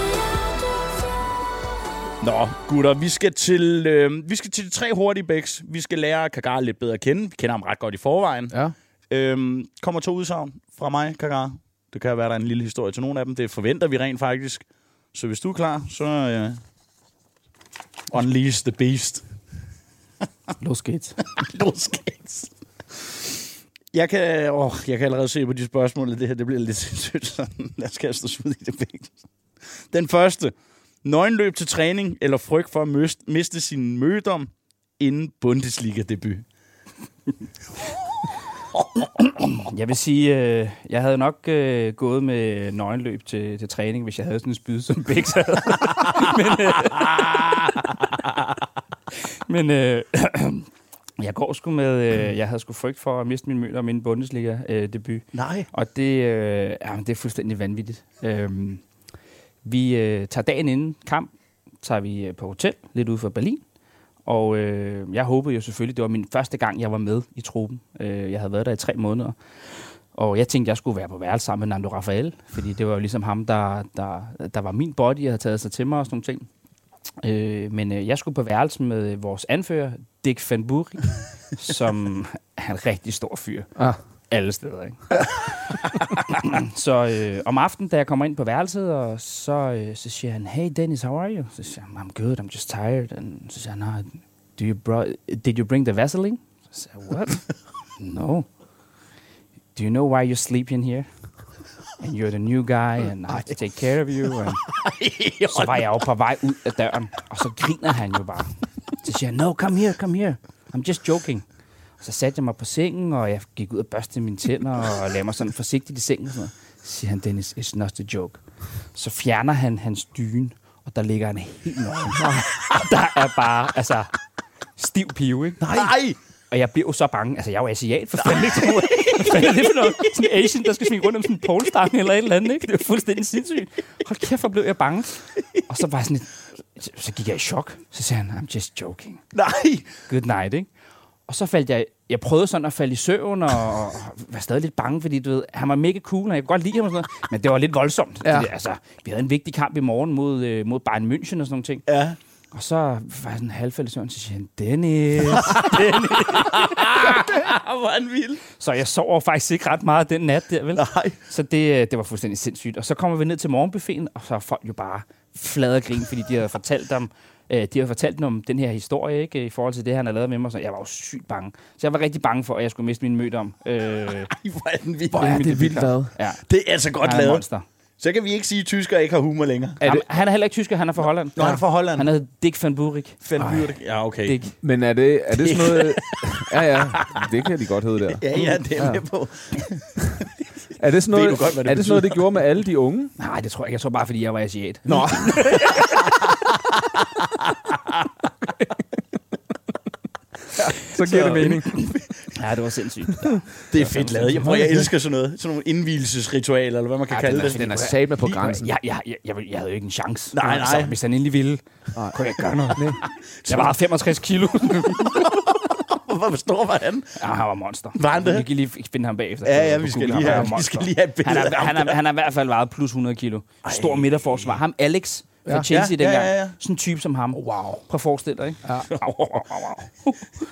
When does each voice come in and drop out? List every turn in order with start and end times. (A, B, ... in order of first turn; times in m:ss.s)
0:02.2-0:08.6 A
0:09.1-0:16.6 A
0:18.1-0:19.2 A
0:20.6-0:21.2 B
0:21.3-0:22.5 A
0:23.9-0:29.2 A
0:29.9-0:30.5 A
0:31.0-0:36.5 A
0:39.0-0:48.1 B
0:47.0-0:47.7 A
0:49.5-0:50.7 B
0:51.2-0:58.8 B
0:55.3-0:55.7 A
0:59.6-1:01.3 B
1:01.8-1:03.6 B
1:04.3-1:16.5 B
1:17.2-1:23.7 B
1:24.3-1:37.4 B
1:38.0-1:38.5 B
1:39.8-1:41.1 B
1:42.0-1:44.6 B
1:44.7-1:46.0 A
1:45.5-1:51.4 B
1:52.0-1:58.4 B
1:59.0-2:04.1 B
2:02.2-2:02.4 C
2:04.8-2:05.9 B
2:05.6-2:06.2 A
2:06.5-2:19.2 B
2:08.2-2:10.1 A
2:19.3-2:19.9 A
2:20.1-2:20.7 B
2:21.3-2:31.8 B
2:28.2-2:28.5 C
2:31.9-2:32.2 A
2:32.5-2:37.3 B
2:35.3-2:38.4 A
2:38.6-2:54.3 B
2:40.8-2:41.2 A
2:54.3-2:55.7 A
2:55.1-2:56.1 C
2:55.2-2:56.4 B
2:56.5-2:57.4 A
2:57.0-2:57.6 B
2:58.0-2:59.8 A
2:59.8-3:03.2 B
3:01.4-3:02.1 A
3:03.2-3:04.4 A
3:04.2-3:04.5 B
3:04.6-3:09.0 C
3:05.4-3:07.2 A
3:08.2-3:09.9 A
3:10.8-3:13.1 C
3:11.1-3:12.3 A
3:13.2-3:16.0 B
3:14.9-3:15.5 C
3:15.7-3:18.0 A
3:20.6-3:21.7 C
3:21.1-3:22.3 A
3:21.2-3:21.6 B
3:22.4-3:24.6 B
3:23.7-3:27.7 A
3:24.4-3:24.9 C
3:27.2-3:31.6 B
3:27.2-3:28.7 C
3:30.3-3:31.0 A
3:32.1-3:35.3 B
3:32.8-3:33.0 C
3:33.4-3:33.8 A
3:34.9-3:37.1 A
3:37.2-3:50.3 B
3:38.0-3:38.5 A
3:39.4-3:42.0 A
3:40.2-3:40.5 C
3:43.6-3:44.6 A
3:45.7-3:46.6 A
3:47.3-3:47.8 C
3:48.9-3:49.7 A